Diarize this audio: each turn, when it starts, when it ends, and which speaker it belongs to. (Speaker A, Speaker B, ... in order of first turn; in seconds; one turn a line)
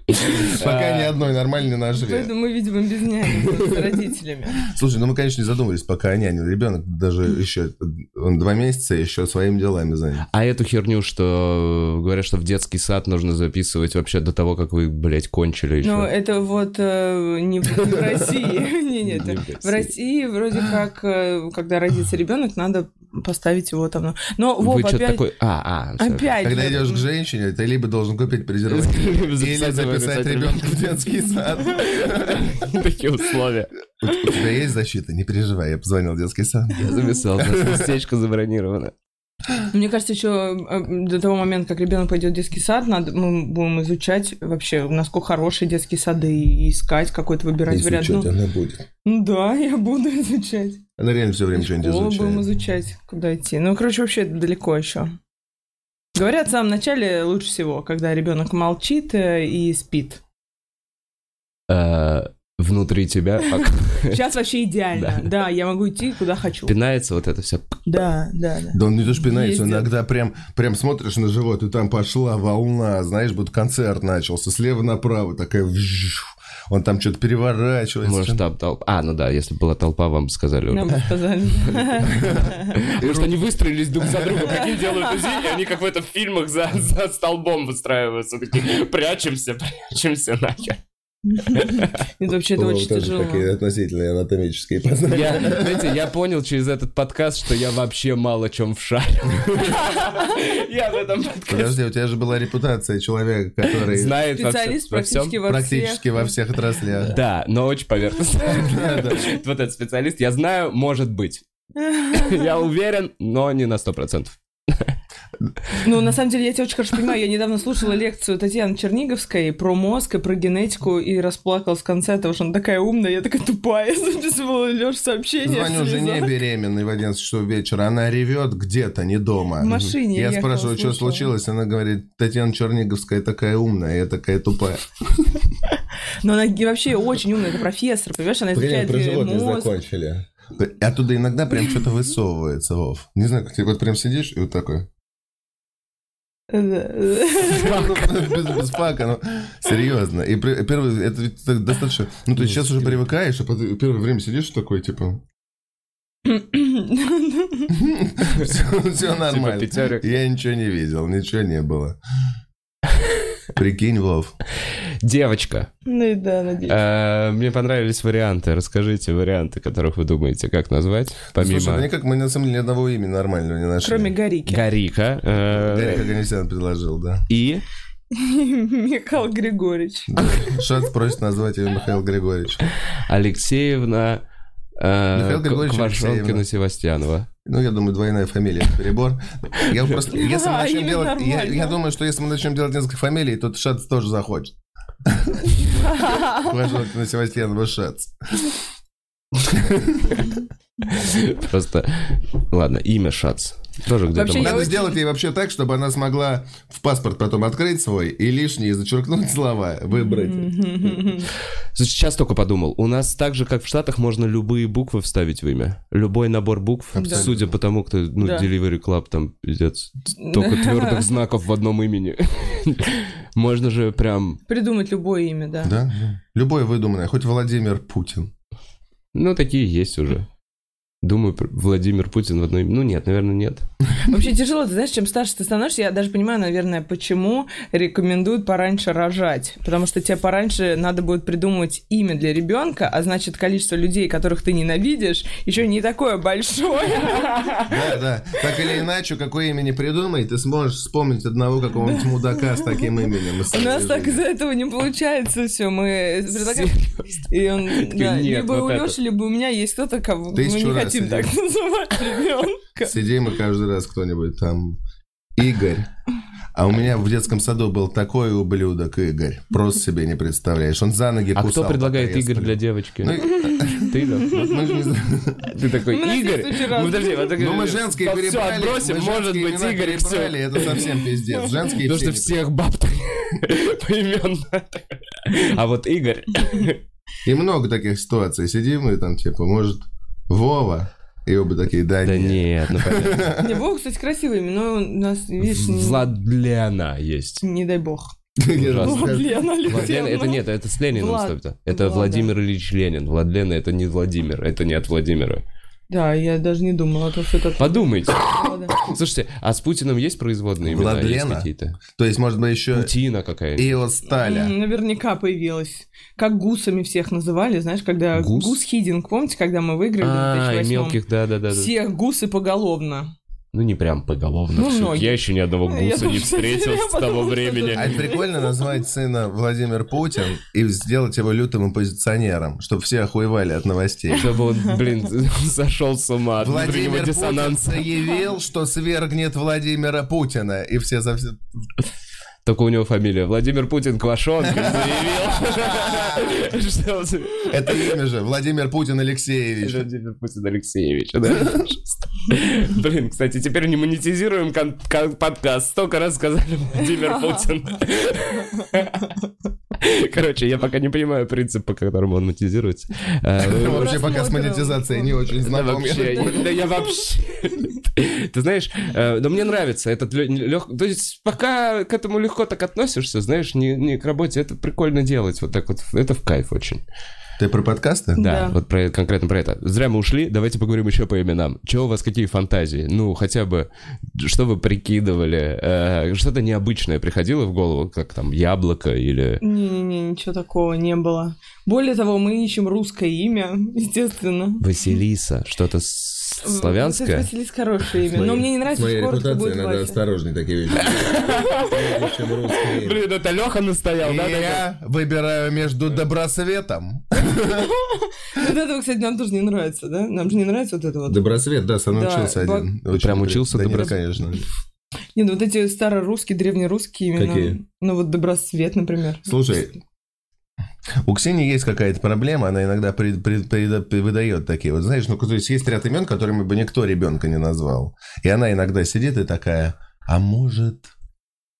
Speaker A: 0.3-1.1
Speaker B: 0.4-2.3
Speaker C: 2.0-4.6
Speaker B: 3.4-3.8
Speaker B: 4.6-10.2
Speaker A: 10.3-16.1
Speaker C: 15.8-25.2
Speaker A: 19.1-19.9
Speaker A: 24.6-26.4
Speaker C: 26.0-27.0
Speaker B: 26.4-32.5
Speaker A: 28.6-31.0
Speaker A: 31.8-33.7
Speaker B: 34.0-37.9
Speaker A: 36.8-38.9
Speaker C: 39.7-48.3
Speaker B: 47.7-48.9
Speaker C: 49.0-50.8
Speaker B: 51.0-52.4
Speaker C: 51.5-55.1
Speaker C: 56.1-60.2
Speaker A: 61.7-64.2
Speaker C: 63.6-66.7
Speaker A: 65.0-65.3
Speaker A: 66.7-67.8
Speaker C: 67.9-69.9
Speaker B: 68.7-78.4
Speaker A: 78.0-81.0
Speaker C: 80.7-82.8
Speaker B: 82.1-83.4
Speaker A: 82.7-90.8
Speaker B: 84.0-84.3
Speaker C: 84.4-85.6
Speaker C: 91.3-93.5
Speaker A: 91.5-91.9
Speaker B: 92.5-96.0
Speaker A: 95.1-101.8
Speaker B: 101.5-104.1
Speaker A: 103.7-105.4
Speaker C: 104.3-106.3
Speaker B: 105.4-107.2
Speaker A: 107.0-111.4
Speaker B: 108.4-109.3
Speaker C: 111.8-112.5
Speaker A: 112.1-114.9
Speaker C: 115.8-126.3
Speaker B: 125.4-135.3
Speaker C: 129.6-131.3
Speaker A: 129.7-129.9
Speaker C: 136.2-139.7
Speaker B: 138.5-144.9
Speaker C: 146.5-147.8
Speaker A: 147.4-148.7
Speaker B: 147.7-155.2
Speaker A: 152.4-152.8
Speaker C: 156.2-157.7
Speaker B: 157.7-162.0
Speaker A: 159.2-160.0
Speaker B: 163.5-164.4
Speaker A: 164.7-165.7
Speaker C: 165.9-166.8
Speaker A: 166.7-171.9
Speaker B: 171.4-174.1
Speaker C: 173.8-174.6
Speaker A: 174.5-176.1
Speaker B: 175.5-177.2
Speaker A: 177.3-177.6
Speaker C: 178.1-180.2
Speaker B: 180.1-182.7
Speaker A: 183.0-184.2
Speaker A: 184.8-187.3
Speaker B: 185.1-186.5
Speaker B: 187.4-198.5
Speaker C: 190.1-191.8
Speaker C: 195.9-196.5
Speaker B: 199.5-200.2
Speaker A: 200.9-204.8
Speaker C: 204.1-205.0
Speaker B: 204.4-211.1
Speaker C: 209.9-211.3
Speaker A: 211.8-224.4
Speaker C: 216.9-217.3
Speaker B: 216.9-217.5
Speaker C: 218.2-218.5
Speaker C: 220.2-221.1
Speaker C: 224.5-225.8
Speaker B: 225.6-228.3
Speaker A: 229.1-230.3
Speaker A: 231.0-233.6
Speaker C: 234.0-247.6
Speaker B: 247.7-254.2
Speaker C: 251.8-256.8
Speaker A: 256.3-259.0
Speaker C: 257.3-263.0
Speaker B: 260.4-261.3
Speaker B: 262.8-264.8
Speaker B: 265.4-265.9
Speaker B: 266.5-275.5
Speaker A: 271.4-274.6
Speaker C: 273.4-274.3
Speaker A: 275.5-280.9
Speaker C: 275.8-277.3
Speaker B: 277.4-282.4
Speaker A: 281.8-286.8
Speaker B: 287.2-293.6
Speaker A: 292.0-293.3
Speaker C: 293.4-296.1
Speaker A: 295.4-297.4
Speaker C: 297.4-298.1
Speaker B: 298.4-299.4
Speaker A: 298.6-305.4
Speaker C: 298.8-302.3
Speaker C: 305.9-308.7
Speaker A: 307.6-311.8
Speaker B: 310.6-312.9
Speaker A: 312.7-313.7
Speaker B: 313.6-314.5
Speaker C: 314.2-321.0
Speaker A: 318.1-318.6
Speaker A: 320.0-321.7
Speaker C: 321.5-323.1
Speaker A: 323.5-327.9
Speaker C: 324.5-328.8
Speaker B: 327.8-334.3
Speaker A: 334.1-338.0
Speaker B: 336.4-341.4
Speaker A: 342.4-348.0
Speaker B: 344.5-346.4
Speaker B: 347.5-349.8
Speaker A: 349.6-359.1
Speaker C: 357.1-357.4
Speaker A: 359.8-364.0
Speaker B: 363.4-366.6
Speaker C: 363.6-365.3
Speaker A: 365.4-376.8
Speaker B: 377.4-378.2
Speaker C: 378.2-378.6
Speaker A: 378.2-389.4
Speaker C: 389.4-394.6
Speaker A: 394.6-397.3
Speaker C: 396.4-400.0
Speaker B: 398.1-403.0
Speaker A: 400.7-404.7
Speaker B: 404.0-407.7
Speaker C: 407.5-411.2
Speaker B: 411.1-414.4
Speaker C: 411.9-412.7
Speaker A: 412.9-414.0
Speaker C: 415.1-419.5
Speaker B: 417.2-417.6
Speaker B: 419.2-419.8
Speaker B: 421.0-430.9